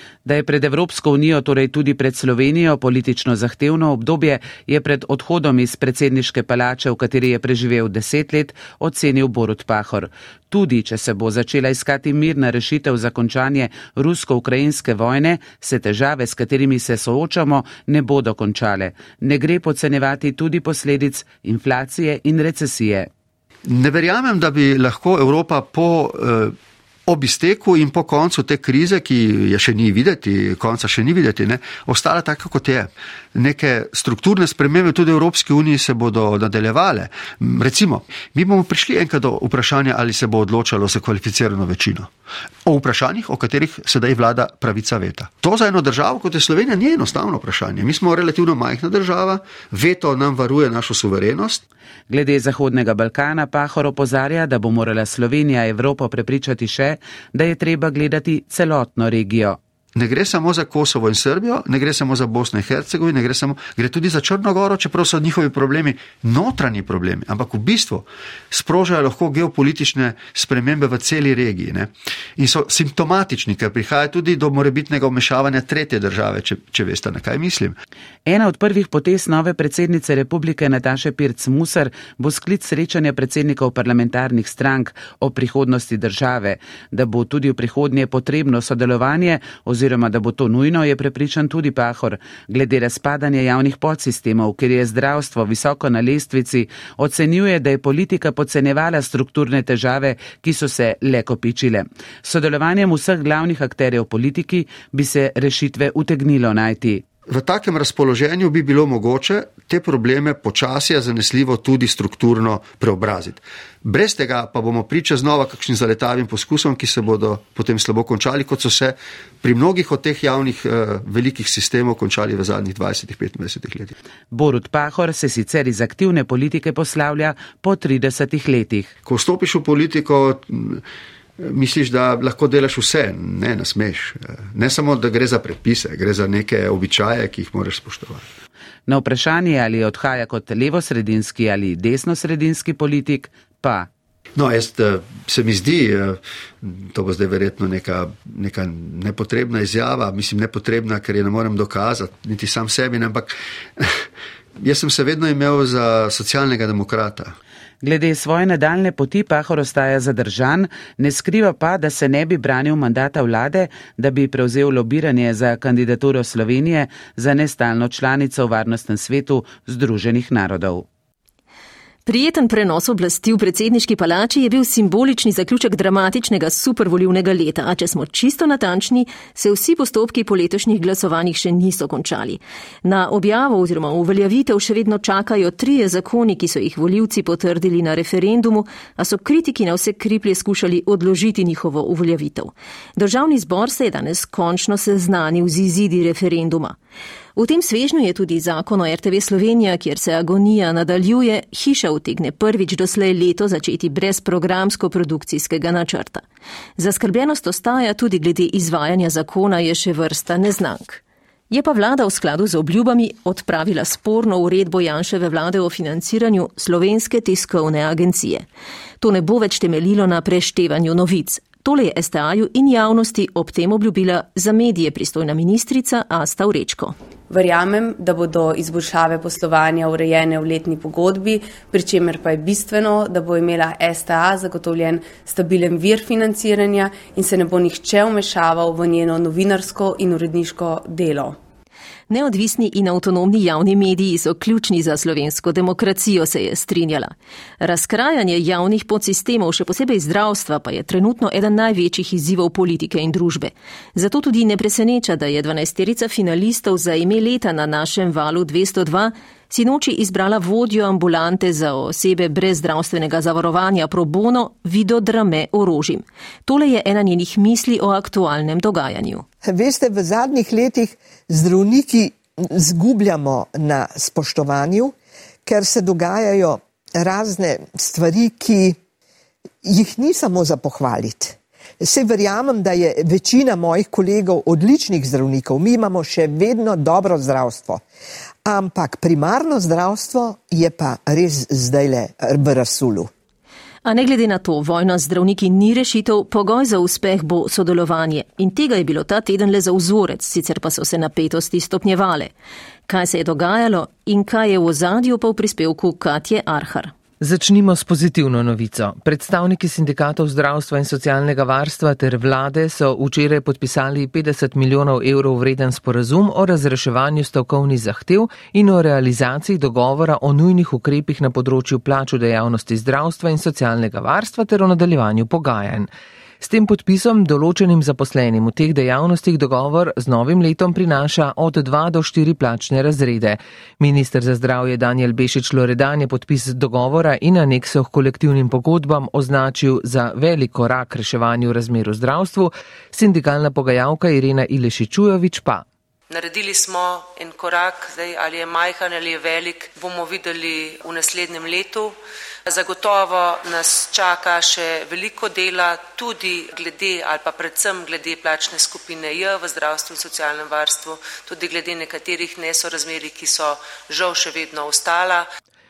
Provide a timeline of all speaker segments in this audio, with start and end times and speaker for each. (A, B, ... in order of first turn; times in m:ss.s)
0:00.2-0:23.1 A
0:23.7-0:26.6 B
0:27.1-0:42.1 B
0:42.7-0:51.6 B
0:52.1-0:59.6 A
1:00.0-1:17.8 B
1:18.3-1:47.0 A
1:47.3-2:03.9 B
2:04.3-2:08.9 A
2:09.0-2:10.8 B
2:11.4-2:18.2 B
2:18.9-2:23.9 A
2:24.4-2:34.0 B
2:34.6-2:37.4 B
2:37.8-2:50.8 A
2:52.1-3:16.8 C
3:17.4-3:26.2 C
3:26.8-3:38.5 C
3:39.0-3:47.0 C
3:47.3-4:01.4 D
4:02.1-4:29.2 C
4:29.4-4:38.8 E
4:39.6-4:47.8 E
4:48.4-4:53.1 E
4:53.8-5:02.3 C
5:02.9-5:06.9 C
5:07.2-5:45.6 F
5:46.1-6:05.3 G